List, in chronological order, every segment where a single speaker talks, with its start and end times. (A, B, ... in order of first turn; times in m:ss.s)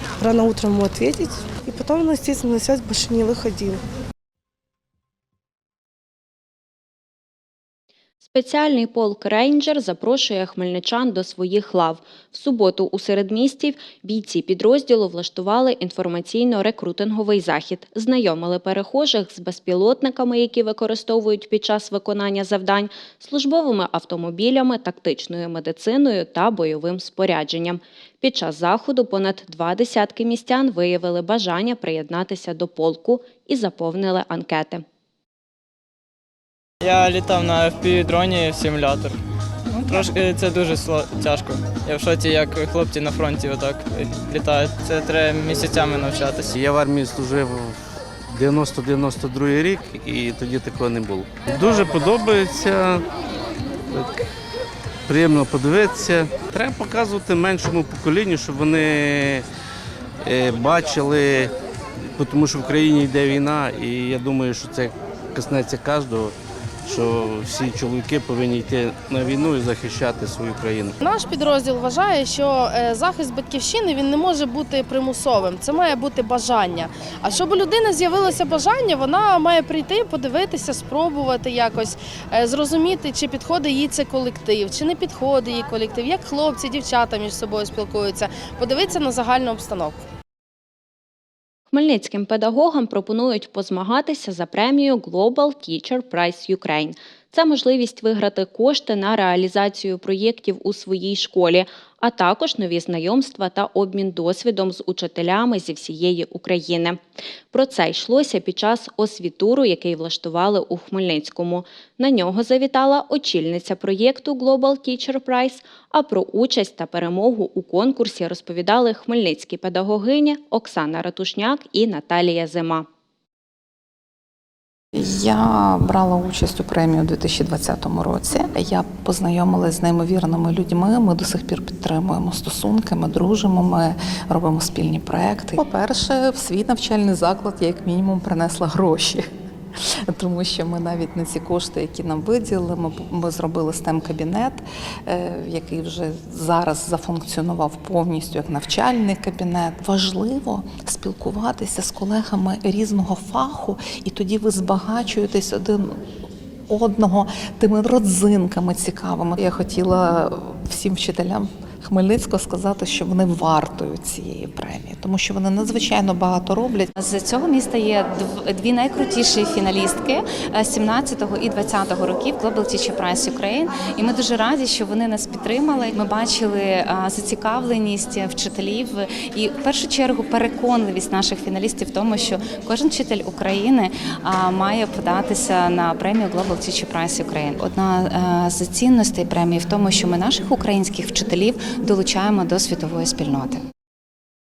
0:00.2-0:03.8 A
0:08.2-0:34.8 B
0:36.8-0:39.2 C
0:39.8-0:46.5 C
0:46.5-0:47.8 D
0:48.3-0:53.0 D
0:53.9-0:54.2 D
0:55.1-0:59.4 D
1:00.2-1:01.5 D
1:02.1-1:06.3 D
1:06.8-1:11.0 D
1:11.0-1:30.0 E
1:31.7-1:47.0 B
1:47.5-2:02.8 B
2:04.9-2:19.2 F
2:20.1-2:36.0 F
2:36.7-2:46.9 F
2:47.0-3:13.6 G